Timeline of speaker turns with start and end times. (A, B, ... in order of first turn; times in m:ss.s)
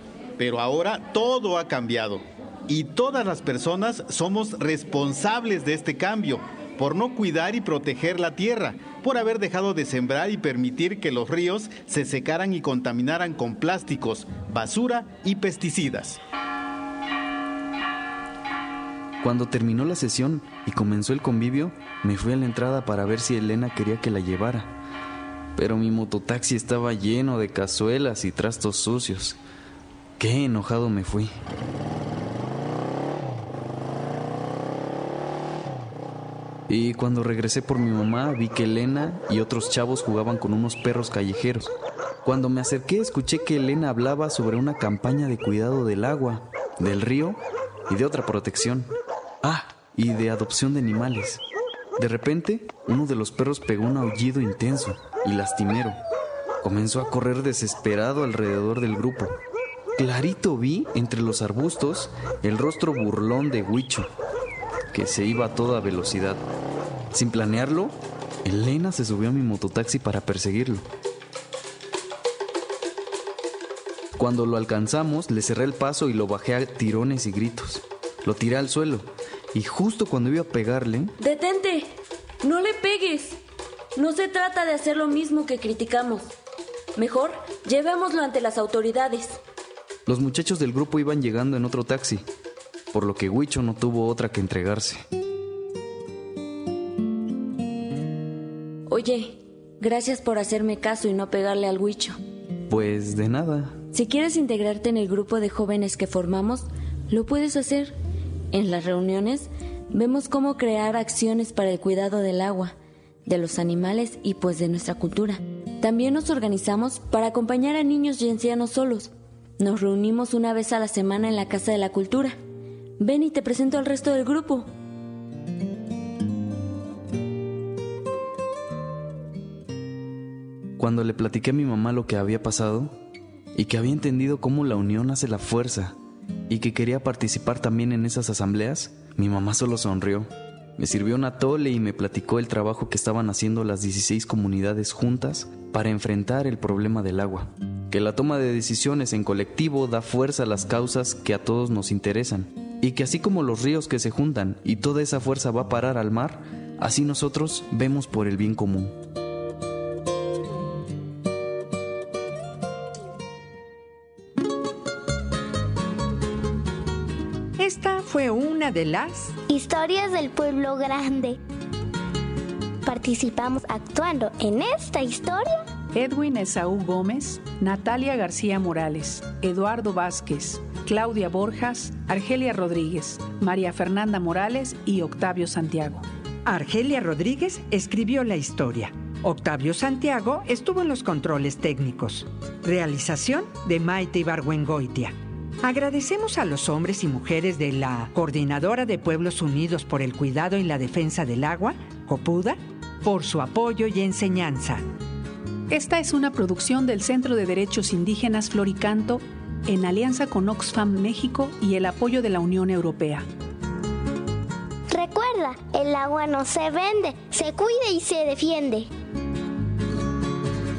0:00.4-0:16.2 A
0:19.2-0:24.7 B
0:25.6-0:29.4 B
0:30.2-0:31.3 B
0:36.7-0:41.7 B
0:42.2-0:48.9 B
0:49.4-0:51.4 B
0:52.0-0:56.0 B
0:56.6-0:59.4 B
1:00.0-1:04.1 B
1:04.9-1:06.4 B
1:07.1-1:10.9 B
1:14.2-1:21.1 B
1:21.2-1:21.9 C
1:22.4-1:23.4 C
1:24.0-1:26.3 C
1:27.0-1:29.4 C
1:30.1-1:32.2 B
1:32.9-1:35.0 B
1:38.9-1:42.2 C
1:42.7-1:43.8 B
1:43.9-1:47.9 C
1:48.5-1:52.7 C
1:53.2-2:02.4 C
2:03.0-2:04.7 C
2:10.8-2:12.9 B
2:13.5-2:15.9 B
2:16.5-2:39.0 B
2:47.6-2:49.3 D
2:49.5-2:51.4 E
2:52.8-2:55.7 E
2:55.9-3:06.0 F
3:06.4-3:24.8 D
3:25.7-3:33.2 F
3:34.9-3:38.9 E